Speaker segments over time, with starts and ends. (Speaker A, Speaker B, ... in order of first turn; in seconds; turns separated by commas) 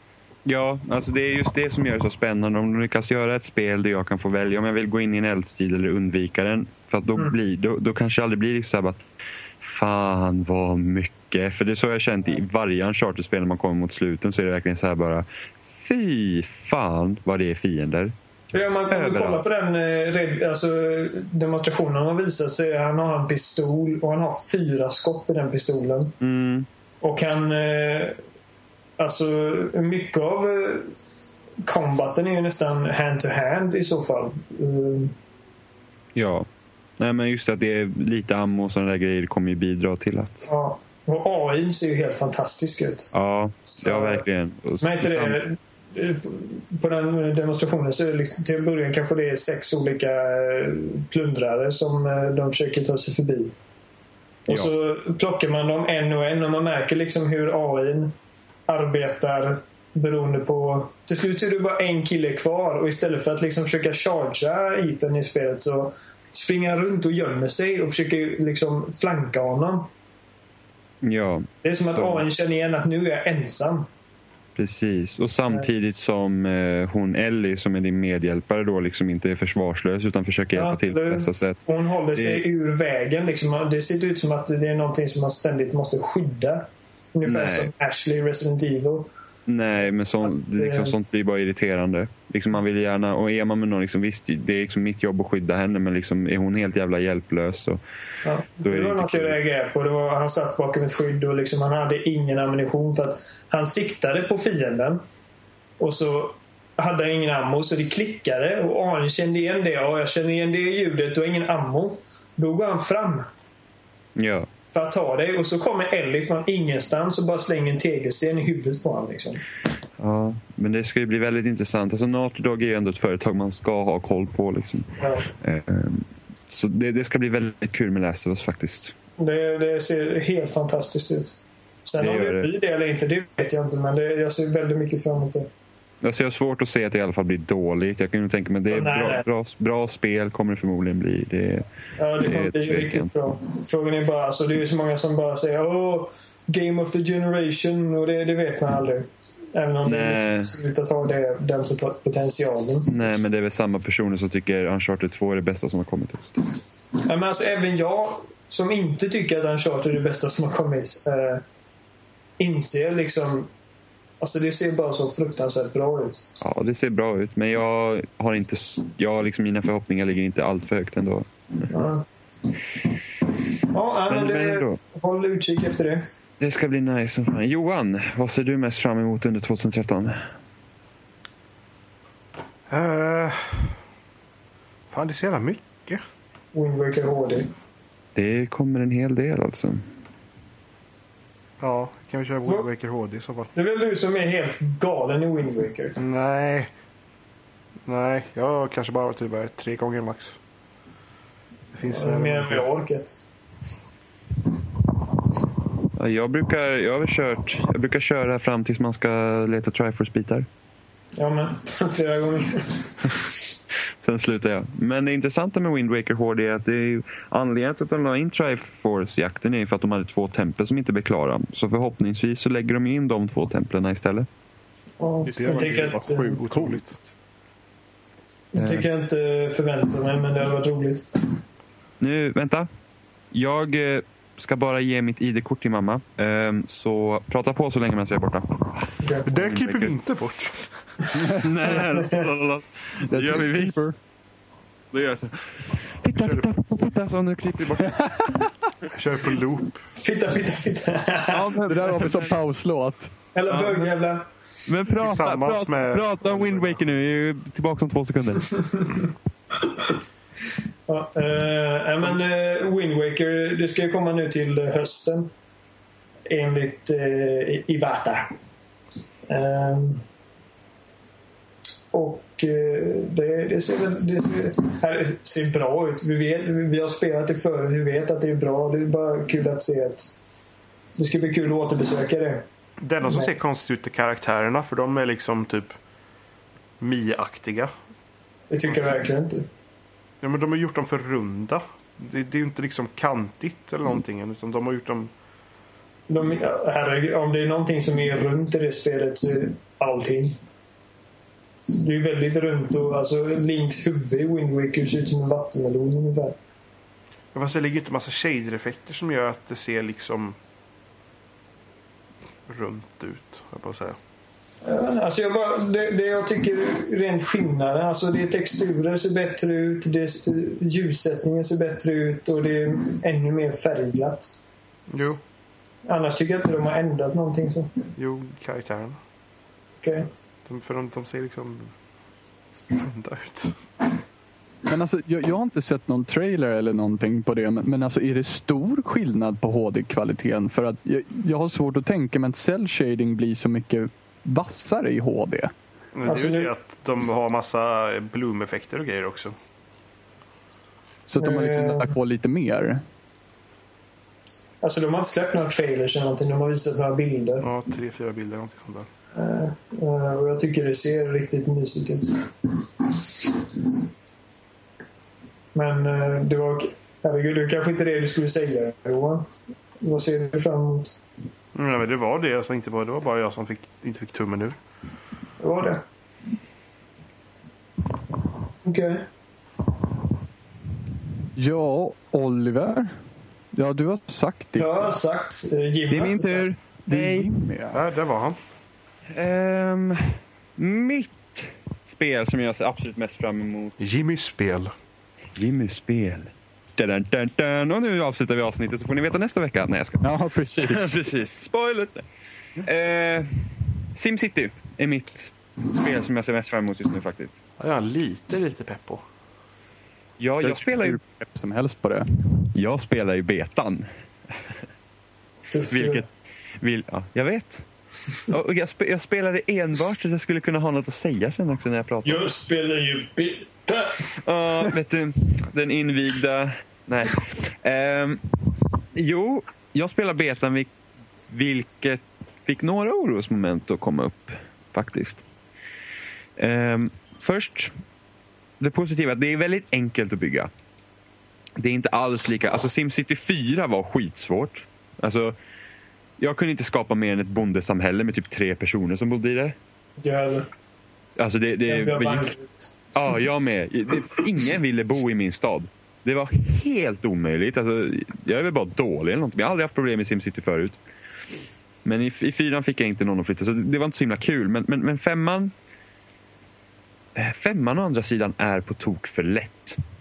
Speaker A: 0.5-9.0, Speaker A: 9.6-18.1, Speaker B: 18.5-26.1, Speaker A: 18.9-19.4, Speaker A: 26.2-26.7, Speaker B: 27.0-28.2, Speaker B: 29.0-30.9, Speaker B: 31.6-35.1, Speaker A: 36.1-36.5, Speaker A: 37.0-40.5, Speaker B: 40.5-43.1, Speaker A: 43.1-45.4, Speaker B: 43.7-44.2, Speaker B: 44.8-53.5, Speaker B: 54.5-58.1, Speaker B: 58.7-69.9, Speaker A: 71.0-72.2, Speaker B: 71.6-73.9, Speaker A: 74.5-81.6, Speaker B: 80.5-89.1, Speaker A: 82.1-82.4, Speaker A: 87.2-87.7, Speaker A: 89.5-97.8, Speaker B: 90.2-90.9, Speaker B: 98.2-105.0, Speaker A: 98.6-99.4, Speaker B: 105.8-113.3, Speaker A: 114.2-114.5, Speaker B: 114.7-119.4, Speaker A: 120.0-128.9, Speaker B: 125.0-125.3, Speaker B: 129.2-135.5, Speaker A: 132.0-132.5, Speaker A: 136.0-141.6, Speaker B: 138.7-139.2, Speaker B: 142.0-153.1, Speaker A: 142.2-143.1, Speaker A: 149.8-150.5, Speaker A: 152.9-156.4, Speaker B: 157.0-161.4, Speaker B: 162.4-163.5, Speaker B: 164.2-166.4, Speaker A: 166.4-171.3, Speaker B: 171.7-172.1, Speaker B: 173.7-176.1, Speaker A: 174.1-174.8, Speaker A: 176.4-180.3, Speaker C: 182.7-183.7, Speaker C: 184.9-186.0, Speaker B: 186.5-187.5, Speaker A: 188.1-189.9, Speaker C: 191.6-193.5, Speaker B: 193.5-196.0, Speaker C: 196.0-196.7, Speaker C: 197.9-200.4, Speaker C: 201.7-202.6, Speaker B: 201.9-203.1, Speaker A: 205.9-210.5, Speaker B: 211.2-213.1, Speaker A: 214.0-224.3, Speaker B: 225.0-226.4, Speaker C: 225.3-226.9, Speaker D: 225.3-226.8, Speaker B: 228.5-231.4, Speaker A: 228.6-228.9, Speaker A: 232.0-232.7, Speaker A: 233.3-239.9, Speaker B: 239.0-239.3, Speaker C: 239.2-240.7, Speaker D: 241.2-241.4, Speaker A: 241.2-244.0, Speaker B: 241.7-242.3, Speaker D: 243.1-244.0, Speaker A: 244.9-248.3, Speaker C: 246.1-246.5, Speaker C: 248.9-249.8, Speaker B: 250.0-251.6, Speaker A: 251.3-252.4, Speaker D: 251.7-253.1, Speaker B: 253.3-254.3, Speaker A: 253.5-253.9, Speaker A: 254.7-258.6, Speaker C: 255.0-256.8, Speaker B: 260.9-265.3, Speaker B: 266.3-268.3, Speaker B: 269.3-270.0, Speaker B: 271.9-280.1, Speaker B: 281.0-282.4, Speaker C: 282.8-285.7, Speaker B: 283.0-283.3, Speaker C: 286.8-287.7, Speaker B: 288.5-289.5, Speaker C: 290.2-295.1, Speaker B: 296.1-300.4, Speaker B: 301.7-306.4, Speaker C: 307.3-310.4, Speaker C: 312.5-314.0, Speaker B: 314.6-324.3, Speaker C: 324.9-325.2, Speaker B: 325.9-327.9, Speaker C: 327.9-329.0, Speaker B: 329.8-330.1, Speaker C: 330.5-331.7, Speaker C: 332.7-333.6, Speaker D: 334.6-345.5, Speaker C: 345.9-349.3, Speaker B: 346.1-346.5, Speaker D: 351.1-352.8, Speaker B: 351.2-351.9, Speaker B: 354.6-357.5, Speaker C: 357.4-358.9, Speaker B: 359.1-363.8, Speaker B: 365.5-370.9, Speaker C: 371.5-374.6, Speaker B: 375.4-375.8, Speaker B: 378.6-379.1, Speaker D: 381.4-382.9, Speaker D: 383.5-384.9, Speaker B: 384.6-386.5, Speaker A: 385.9-387.3, Speaker D: 386.9-387.8, Speaker C: 387.7-388.4, Speaker A: 389.1-393.8, Speaker C: 393.8-394.7, Speaker A: 395.3-400.1, Speaker D: 400.0-400.9, Speaker A: 400.6-402.1, Speaker A: 402.6-407.4, Speaker C: 407.6-409.0, Speaker A: 410.2-411.0, Speaker D: 410.4-412.1, Speaker A: 412.5-414.5, Speaker B: 415.5-416.0, Speaker A: 415.7-416.1, Speaker A: 416.6-417.7, Speaker A: 418.3-422.3, Speaker B: 422.0-424.1, Speaker A: 424.1-428.2, Speaker A: 428.9-430.7, Speaker A: 431.3-435.2, Speaker A: 436.4-437.7, Speaker A: 438.6-440.5, Speaker A: 441.6-445.4, Speaker A: 446.2-449.6, Speaker B: 450.0-450.5, Speaker A: 451.2-452.3, Speaker B: 451.6-452.7, Speaker A: 452.9-460.8, Speaker A: 461.8-465.5, Speaker A: 467.1-469.8